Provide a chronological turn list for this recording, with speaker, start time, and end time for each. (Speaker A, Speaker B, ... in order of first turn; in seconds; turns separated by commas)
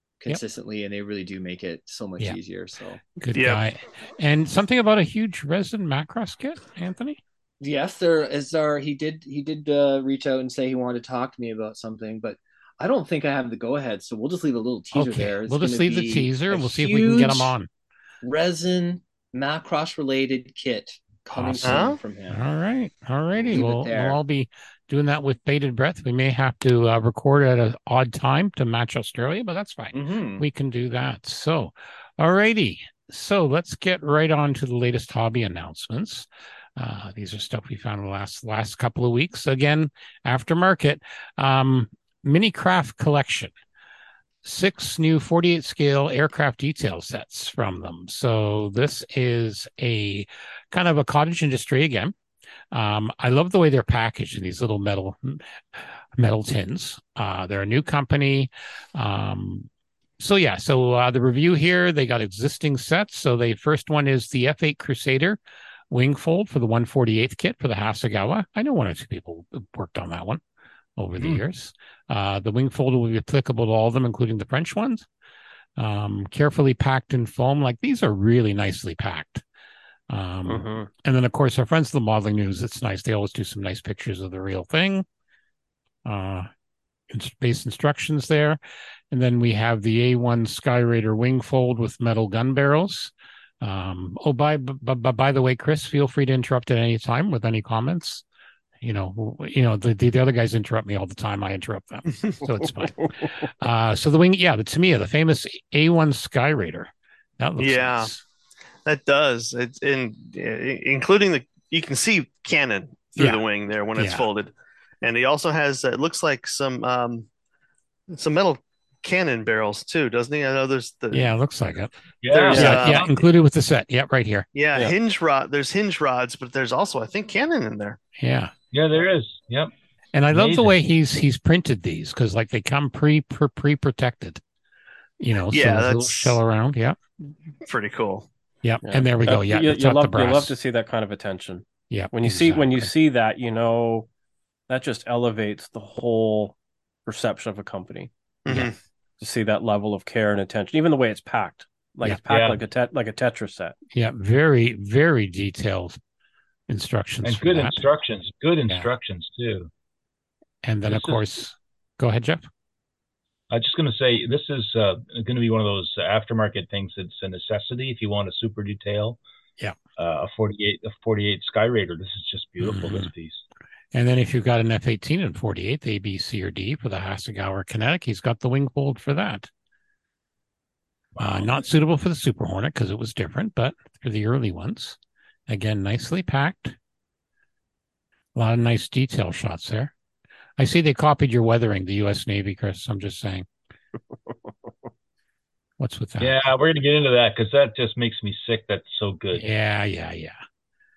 Speaker A: 0.2-3.0, Speaker B: 3.2-7.2, Speaker C: 3.3-3.6, Speaker A: 7.6-17.5, Speaker B: 14.9-17.7, Speaker A: 18.2-22.4, Speaker B: 21.3-43.5, Speaker C: 21.6-22.0, Speaker A: 23.4-24.2, Speaker A: 29.9-30.4, Speaker B: 44.4-52.1, Speaker B: 52.7-65.4, Speaker B: 65.9-70.4, Speaker B: 71.0-75.1, Speaker B: 75.8-79.4, Speaker B: 80.1-85.0, Speaker D: 80.5-80.9, Speaker B: 86.0-86.5, Speaker B: 87.1-88.6, Speaker B: 89.1-98.2, Speaker B: 98.8-108.2, Speaker C: 107.6-108.1, Speaker C: 108.8-117.3, Speaker B: 113.2-113.4, Speaker B: 114.0-114.2, Speaker C: 118.1-121.3, Speaker B: 121.1-121.9, Speaker E: 122.2-123.1, Speaker C: 122.3-123.1, Speaker D: 122.4-122.9, Speaker B: 122.5-124.5, Speaker C: 124.5-128.0, Speaker B: 128.2-128.5, Speaker E: 128.7-129.7, Speaker B: 130.1-134.4, Speaker E: 130.3-130.8, Speaker B: 135.2-137.0, Speaker C: 135.5-136.4, Speaker C: 137.6-138.3, Speaker B: 138.6-140.5, Speaker D: 138.8-144.1, Speaker B: 141.9-142.9, Speaker D: 144.7-148.1, Speaker C: 148.4-148.7, Speaker D: 149.2-153.8, Speaker E: 152.3-152.6, Speaker B: 153.9-156.0, Speaker B: 156.7-157.8, Speaker E: 157.2-159.7, Speaker B: 160.6-162.5, Speaker E: 160.8-161.2, Speaker E: 163.5-169.2, Speaker E: 170.0-173.4, Speaker B: 172.6-173.1, Speaker B: 173.9-179.5, Speaker E: 181.2-181.5, Speaker B: 181.2-186.8, Speaker B: 188.3-189.9, Speaker B: 190.6-193.5, Speaker B: 195.8-196.4, Speaker E: 196.2-199.4, Speaker B: 199.3-200.4